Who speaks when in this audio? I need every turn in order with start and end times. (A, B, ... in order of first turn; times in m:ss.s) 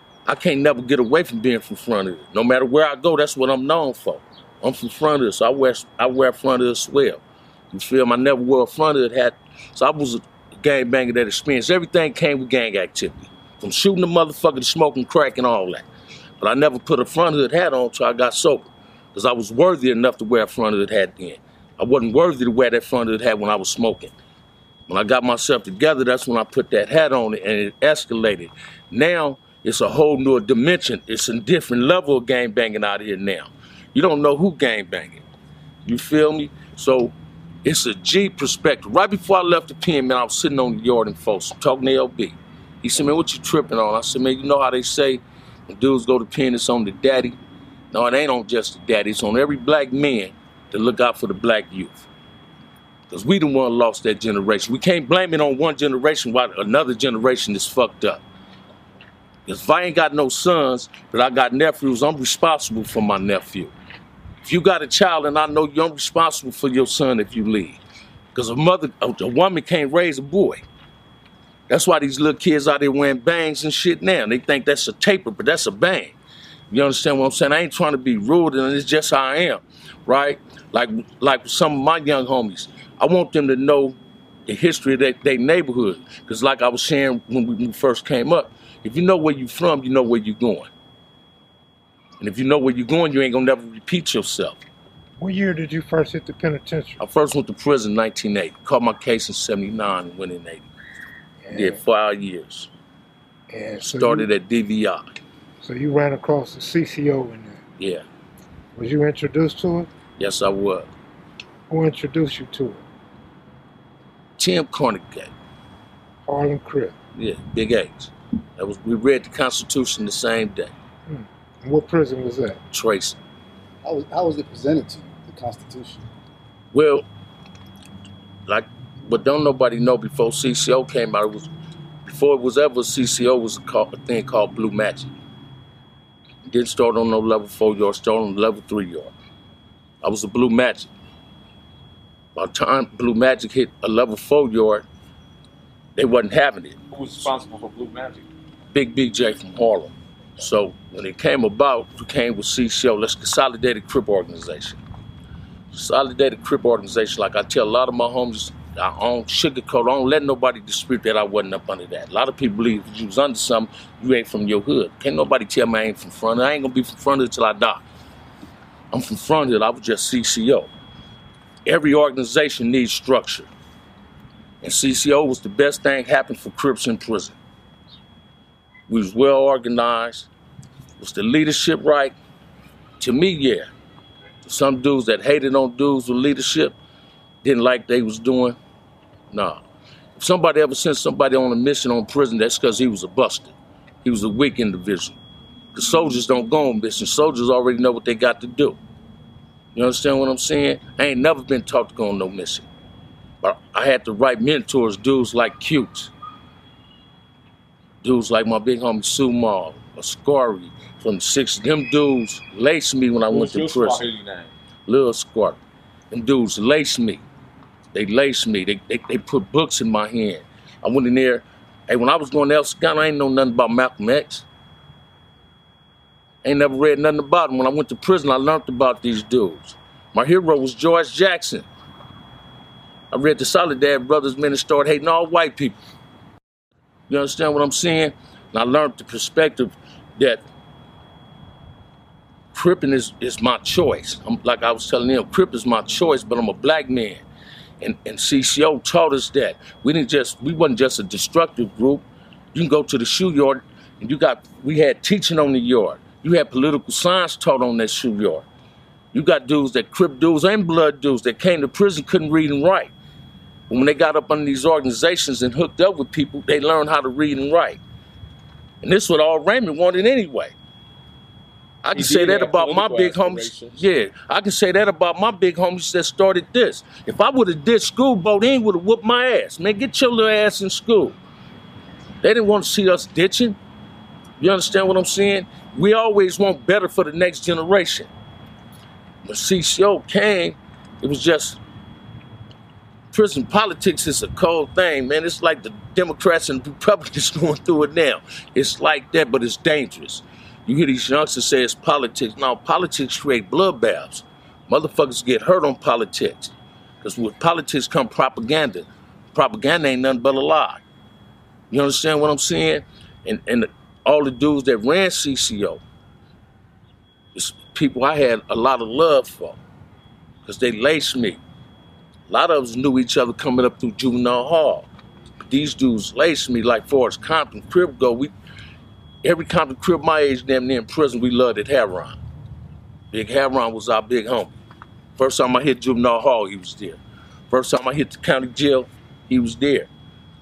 0:00.2-0:15.8 A
0:16.4-0:24.1 A
0:24.9-0:35.2 A
0:35.8-0:47.4 A
0:47.9-0:52.1 A
0:53.1-0:58.2 A
0:59.5-1:03.7 A
1:04.4-1:07.8 A
1:08.3-1:10.6 A
1:11.7-1:16.1 A
1:16.7-1:24.0 A
1:24.5-1:30.7 A
1:32.2-1:34.6 A
1:35.2-1:37.0 B
1:37.0-1:40.7 A
1:41.4-1:41.8 B
1:41.5-1:42.7 A
1:43.5-1:44.3 B
1:43.8-1:45.1 A
1:45.6-1:47.6 B
1:47.8-1:48.0 A
1:48.7-1:49.9 B
1:50.2-1:50.9 A
1:51.7-1:52.8 B
1:54.4-1:55.3 A
1:56.2-1:57.0 B
1:57.1-2:00.7 A
2:01.1-2:02.6 B
2:02.7-2:03.2 A
2:03.8-2:06.0 C
2:06.7-2:07.0 A
2:08.5-2:11.5 A
2:12.0-2:15.1 A
2:16.5-2:19.1 A
2:20.0-2:20.9 A
2:22.3-2:24.8 A
2:26.0-2:26.8 A
2:26.9-2:28.3 D
2:28.7-2:34.8 A
2:35.7-2:47.8 A
2:48.9-2:50.7 A
2:51.6-2:53.5 A
2:54.6-2:57.4 A
2:58.9-3:00.3 A
3:01.0-3:02.1 A
3:03.0-3:03.7 A
3:04.4-3:06.8 A
3:07.4-3:08.6 A
3:09.3-3:09.6 A
3:10.2-3:15.2 A
3:15.7-3:18.8 A
3:19.7-3:22.6 A
3:23.4-3:26.1 A
3:28.0-3:34.0 A
3:33.3-3:34.5 D
3:34.9-3:35.6 A
3:36.1-3:37.2 A
3:37.9-3:44.4 A
3:46.4-3:51.6 A
3:53.1-3:55.8 A
3:57.1-4:00.4 A
4:02.5-4:07.2 A
4:07.8-4:18.4 A
4:19.1-4:22.9 A
4:23.7-4:27.8 A
4:28.8-4:30.5 A
4:31.8-4:41.2 A
4:31.9-4:33.8 D
4:42.2-4:43.6 A
4:44.4-4:48.1 A
4:49.2-4:51.6 A
4:53.1-5:10.8 A
5:11.7-5:15.8 A
5:17.3-5:19.6 A
5:20.4-5:21.4 A
5:22.3-5:24.9 A
5:25.5-5:28.3 A
5:29.2-5:32.2 A
5:33.1-5:34.5 A
5:35.2-5:37.0 A
5:37.5-5:39.9 A